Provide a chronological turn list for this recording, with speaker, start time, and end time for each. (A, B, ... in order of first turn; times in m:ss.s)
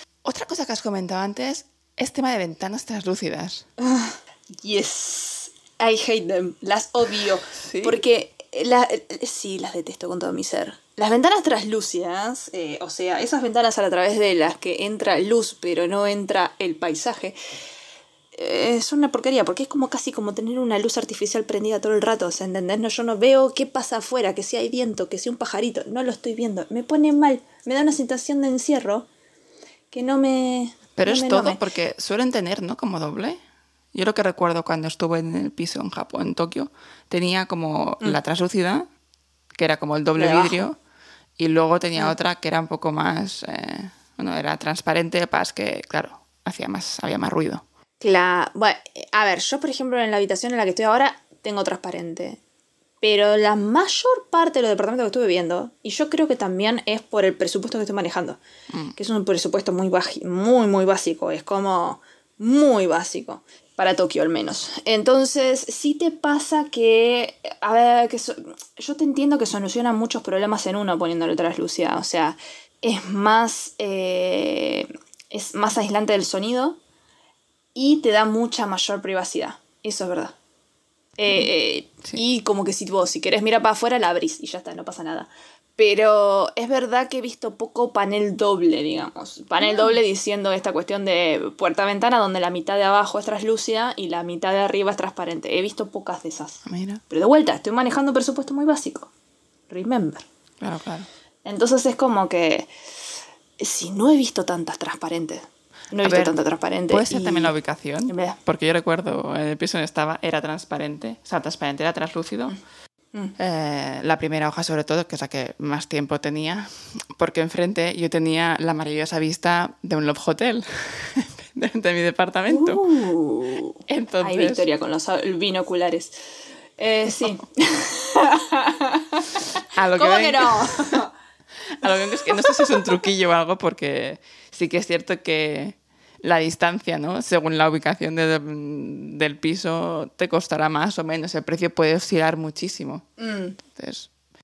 0:00.2-0:03.6 A
0:03.8-0:17.3 B
0:07.5-0:08.0 A
0:18.3-0:29.1 B
0:29.9-0:31.6 B
0:31.0-0:33.4 A
0:33.9-0:38.8 A
0:39.6-0:40.8 A
0:40.2-0:40.6 B
0:41.4-0:47.6 A
0:48.0-0:52.4 B
0:53.0-0:58.4 B
0:59.0-1:16.8 B
1:17.7-1:20.3 B
1:21.2-1:39.1 B
1:29.6-1:30.0 A
1:36.6-1:37.0 A
1:39.7-1:40.2 B
1:40.6-1:41.1 A
1:41.4-1:42.7 B
1:43.6-1:47.5 B
1:46.0-1:46.3 A
1:46.9-1:52.6 A
1:48.1-1:48.4 B
1:53.4-2:02.8 A
2:02.5-2:06.1 B
2:03.9-2:04.6 A
2:06.8-2:11.1 B
2:09.7-2:11.0 A
2:11.8-2:23.1 A
2:11.8-2:12.9 B
2:23.2-2:23.6 B
2:23.7-2:24.1 A